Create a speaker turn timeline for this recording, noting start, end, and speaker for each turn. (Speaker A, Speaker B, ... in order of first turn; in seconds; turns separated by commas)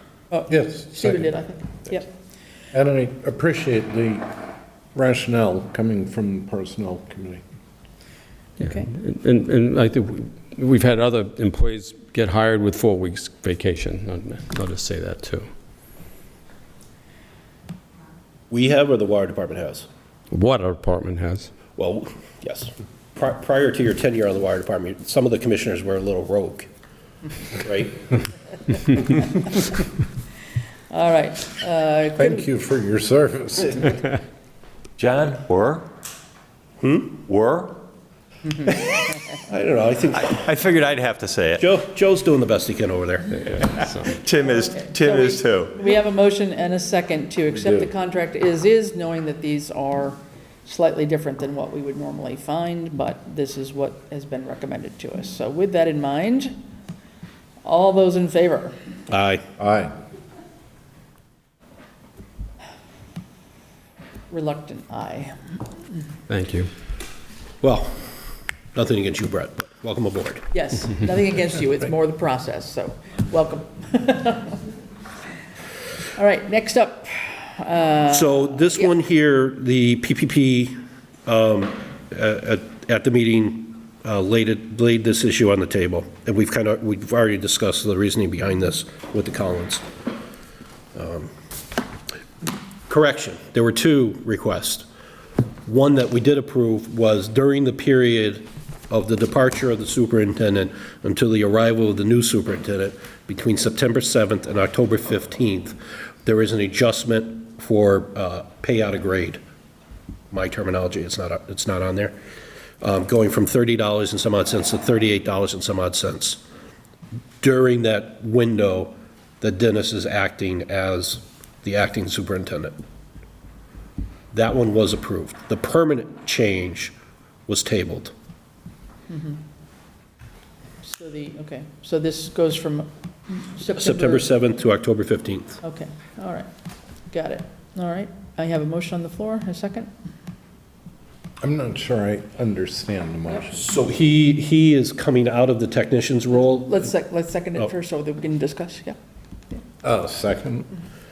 Speaker A: 0.3-2.1, Speaker B: 0.5-1.3, Speaker B: 2.7-4.3, Speaker B: 4.9-7.4, Speaker A: 8.6-8.9, Speaker C: 8.6-15.5, Speaker D: 18.5-19.9, Speaker C: 20.3-21.5, Speaker D: 21.8-26.7, Speaker D: 27.6-28.2, Speaker A: 30.9-32.5, Speaker B: 32.1-34.0, Speaker E: 35.0-35.9, Speaker D: 36.8-37.2, Speaker E: 37.2-37.8, Speaker D: 39.5-40.3, Speaker E: 40.1-41.7, Speaker D: 41.6-43.3, Speaker C: 43.4-44.1, Speaker E: 43.5-45.8, Speaker A: 44.4-56.5, Speaker B: 47.6-47.9, Speaker A: 57.6-58.7, Speaker D: 59.1-59.4, Speaker B: 59.6-59.9, Speaker A: 64.3-65.6, Speaker C: 66.3-66.7, Speaker D: 67.6-68.2, Speaker D: 68.7-70.5, Speaker A: 70.5-74.6, Speaker A: 76.1-78.9, Speaker D: 78.1-80.8, Speaker D: 81.3-89.8, Speaker D: 91.0-91.3, Speaker D: 92.9-94.9, Speaker D: 95.7-109.4, Speaker D: 110.3-112.2, Speaker D: 112.8-116.4, Speaker D: 117.4-122.8, Speaker D: 124.3-127.0, Speaker D: 127.5-128.1, Speaker A: 129.1-129.4, Speaker A: 130.8-134.2, Speaker D: 133.8-135.6, Speaker A: 135.6-136.5, Speaker A: 137.1-139.9, Speaker B: 141.4-143.7, Speaker D: 143.6-146.8, Speaker A: 146.3-148.9, Speaker B: 149.8-150.7